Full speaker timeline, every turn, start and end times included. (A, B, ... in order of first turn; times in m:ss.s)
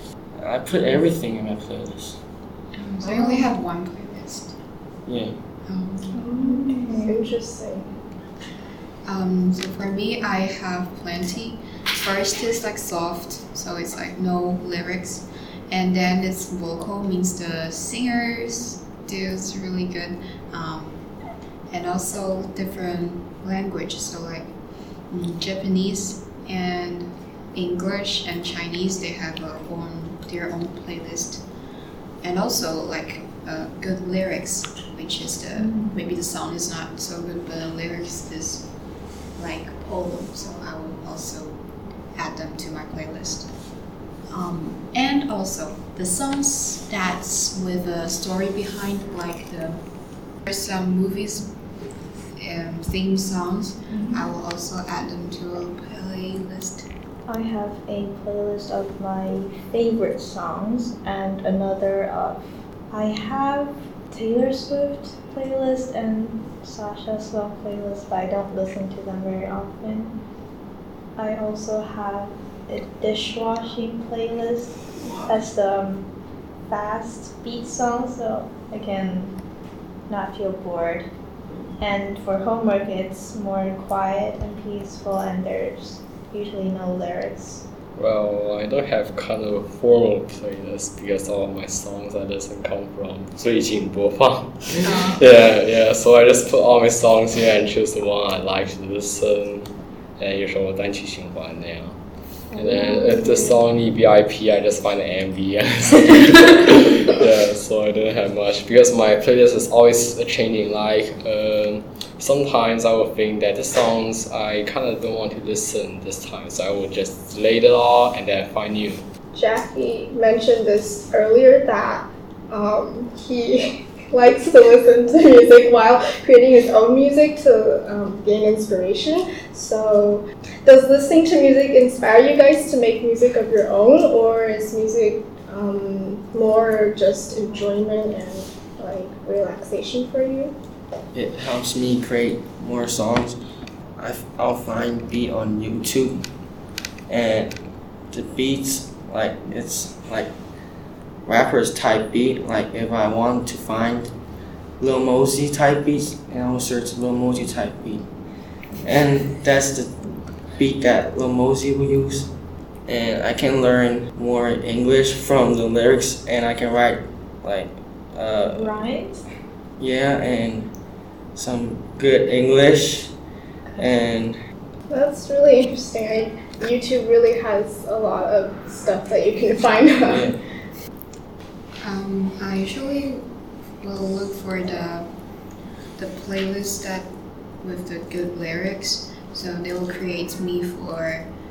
0:00.4-0:02.2 A
0:02.8-0:04.6 B
0:03.1-0:03.4 C
0:05.1-0:05.3 A
0:05.7-0:06.2 B
0:06.2-0:07.2 C
0:06.2-0:07.9 D
0:09.0-0:21.1 B
0:21.7-0:24.5 B
0:25.1-0:31.4 B
0:32.2-0:38.7 B
0:35.6-0:36.0 C
0:39.4-0:41.6 B
0:42.2-0:43.5 B
0:44.3-0:49.8 B
0:50.4-0:51.5 B
0:52.4-0:56.9 B
0:53.9-0:54.3 C
0:57.3-1:10.2 C
1:11.2-1:16.1 C
1:16.7-1:19.4 C
1:20.1-1:21.1 C
1:21.8-1:27.6 C
1:28.0-1:42.0 E
1:34.8-1:35.2 B
1:42.5-1:43.6 C
1:42.5-1:59.1 E
1:59.3-2:20.6 D
2:21.1-2:23.4 A
2:24.0-2:26.2 A
2:27.1-2:27.6 A
2:28.1-2:30.3 A
2:31.3-2:34.1 A
2:34.8-2:38.1 A
2:38.8-2:40.0 A
2:40.6-2:42.3 A
2:42.9-2:48.7 A
2:48.4-2:49.2 C
2:49.8-2:50.7 A
2:51.4-2:53.1 A
2:53.8-2:54.4 A
2:54.9-3:00.2 D
3:00.0-3:00.4 A
3:01.8-3:03.2 B
3:03.8-3:05.1 B
3:06.0-3:07.1 B
3:07.6-3:11.3 B